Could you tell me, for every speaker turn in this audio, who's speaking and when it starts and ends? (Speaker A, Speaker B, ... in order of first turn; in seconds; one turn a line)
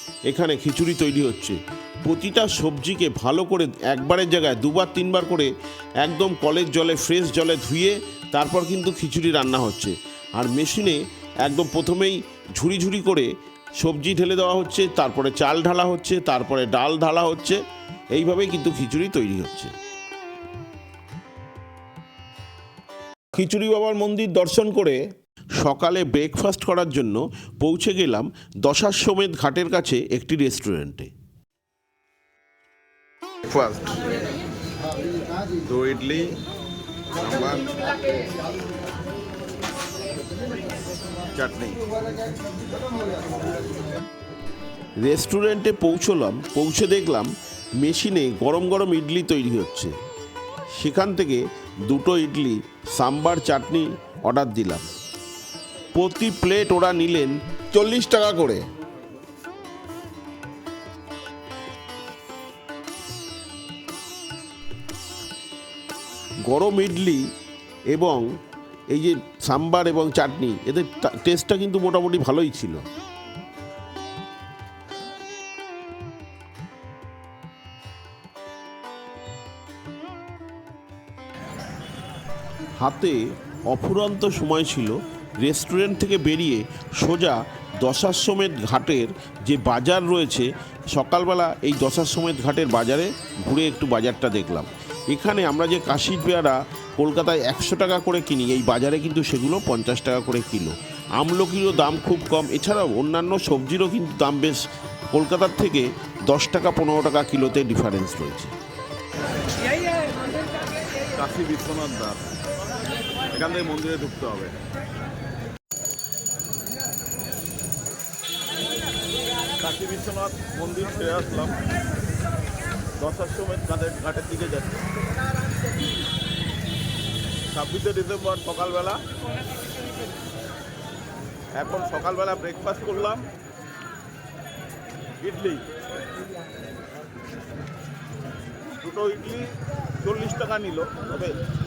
Speaker A: 0.3-5.5
Speaker A: 6.0-13.3
Speaker A: 13.8-17.6
Speaker A: 18.2-19.7
Speaker A: 23.4-25.0
Speaker A: 25.6-31.1
Speaker B: 33.5-34.1
Speaker B: 35.7-36.2
Speaker A: 35.8-36.2
Speaker B: 37.2-37.9
Speaker B: 41.4-41.8
Speaker A: 45.0-47.3
Speaker A: 47.8-50.0
Speaker A: 50.8-54.9
Speaker A: 56.0-58.6
Speaker A: 66.5-67.2
Speaker A: 67.9-68.3
Speaker A: 68.9-72.8
Speaker A: 82.8-108.5
Speaker B: 111.1-112.2
Speaker B: 113.3-114.5
Speaker B: 119.6-121.6
Speaker B: 123.0-124.9
Speaker B: 127.5-129.0
Speaker B: 131.6-133.2
Speaker B: 135.2-135.7
Speaker B: 138.8-139.5
Speaker B: 140.0-141.3